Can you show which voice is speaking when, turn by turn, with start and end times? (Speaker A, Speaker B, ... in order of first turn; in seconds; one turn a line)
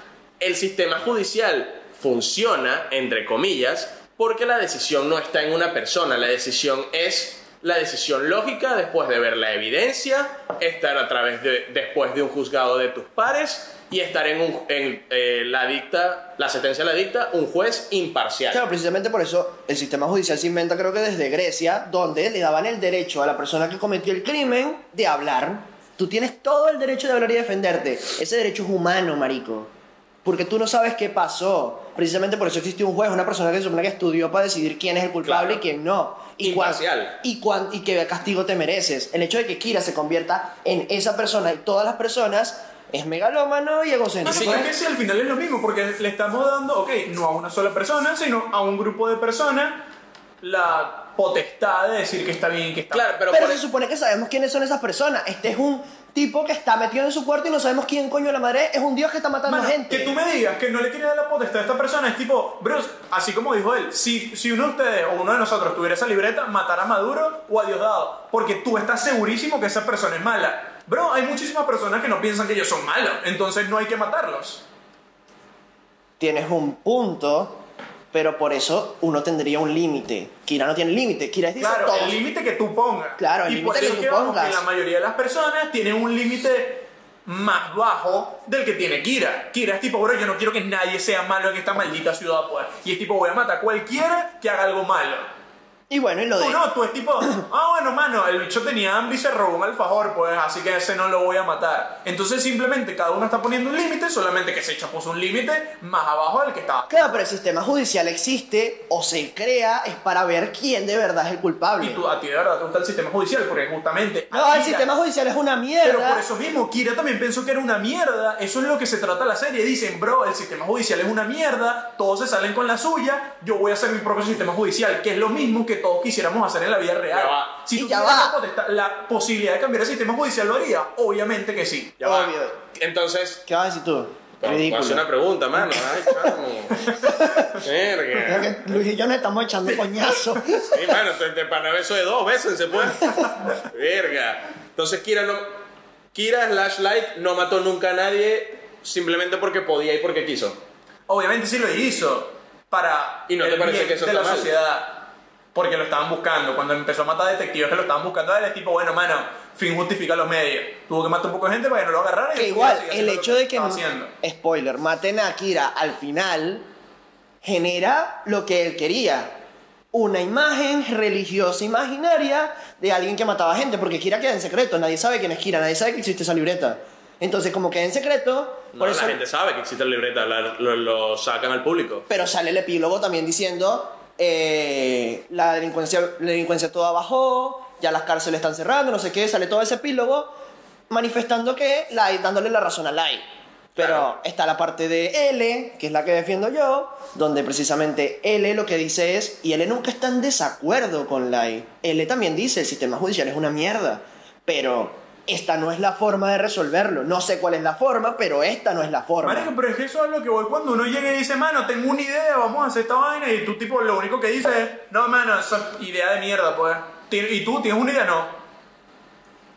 Speaker A: 0.4-18.6
Speaker B: 18.5-29.7
Speaker B: 30.2-44.7
Speaker A: 35.2-35.6
Speaker A: 36.4-37.2
Speaker C: 44.2-49.8
Speaker A: 44.2-44.7
Speaker C: 50.4-53.1
Speaker A: 52.9-53.6
Speaker B: 53.3-60.2
Speaker C: 59.5-74.6
Speaker B: 76.2-77.6
Speaker B: 78.1-82.2
Speaker C: 81.6-95.2
Speaker B: 83.2-84.6
Speaker B: 95.9-96.6
Speaker C: 96.4-107.2
Speaker B: 106.9-112.0
Speaker C: 111.8-114.9
Speaker B: 114.3-116.2
Speaker C: 115.8-132.0
Speaker A: 127.1-127.6
Speaker B: 127.7-128.3
Speaker A: 132.0-133.4
Speaker B: 132.0-132.6
Speaker B: 133.4-136.4
Speaker A: 134.4-137.1
Speaker B: 136.9-137.6
Speaker A: 137.6-138.5
Speaker B: 138.1-140.8
Speaker A: 140.7-145.5
Speaker A: 146.1-150.6
Speaker C: 151.1-164.1
Speaker A: 153.3-154.5
Speaker B: 162.3-166.7
Speaker B: 167.4-169.3
Speaker B: 169.9-179.2
Speaker A: 178.8-182.1
Speaker B: 182.1-190.3
Speaker B: 190.9-193.2
Speaker B: 193.8-209.5
Speaker A: 193.8-194.1
Speaker C: 209.2-218.4